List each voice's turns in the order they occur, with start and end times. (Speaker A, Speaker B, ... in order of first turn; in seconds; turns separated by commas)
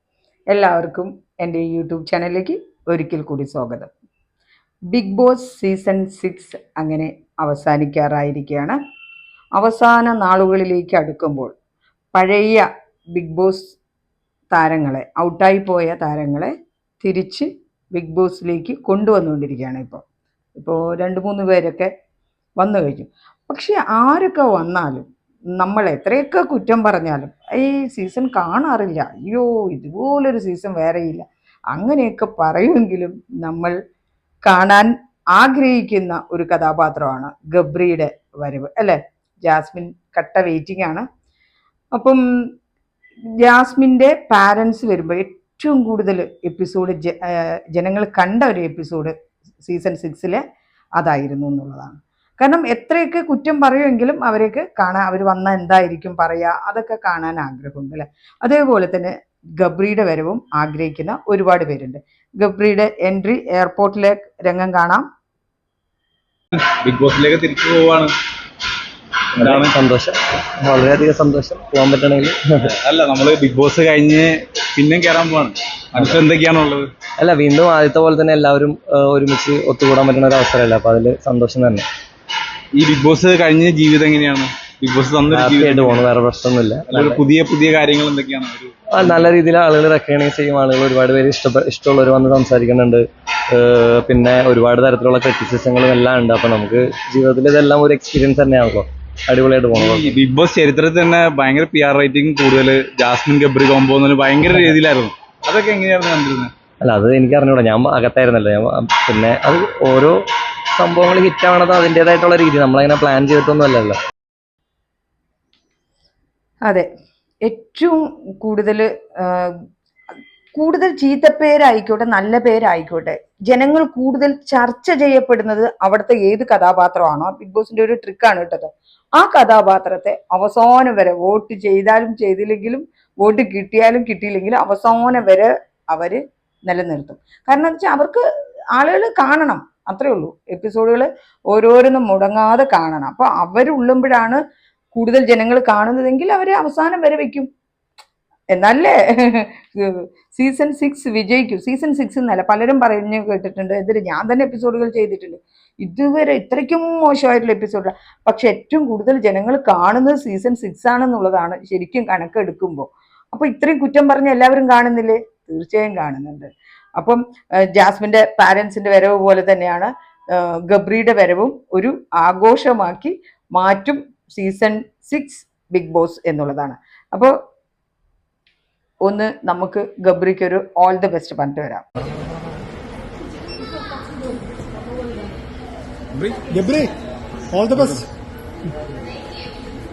Speaker A: 0.5-3.9, Speaker A: 4.9-8.8, Speaker A: 9.6-11.5, Speaker A: 12.1-13.8, Speaker A: 14.5-20.0, Speaker A: 20.6-21.9, Speaker A: 22.6-25.1, Speaker A: 25.6-33.8, Speaker A: 34.4-41.0, Speaker A: 41.9-42.2, Speaker A: 43.4-50.4, Speaker A: 51.0-65.1, Speaker B: 66.8-68.1, Speaker C: 69.4-72.4, Speaker B: 69.4-69.7, Speaker B: 72.6-76.9, Speaker C: 77.2-81.8, Speaker B: 82.7-86.1, Speaker C: 85.3-87.2, Speaker B: 86.9-89.3, Speaker C: 88.9-100.2, Speaker B: 99.7-106.5, Speaker C: 106.8-110.2, Speaker C: 110.7-114.0, Speaker A: 117.4-119.5, Speaker A: 120.5-147.5, Speaker A: 148.5-167.2, Speaker A: 167.7-177.3, Speaker A: 179.0-181.8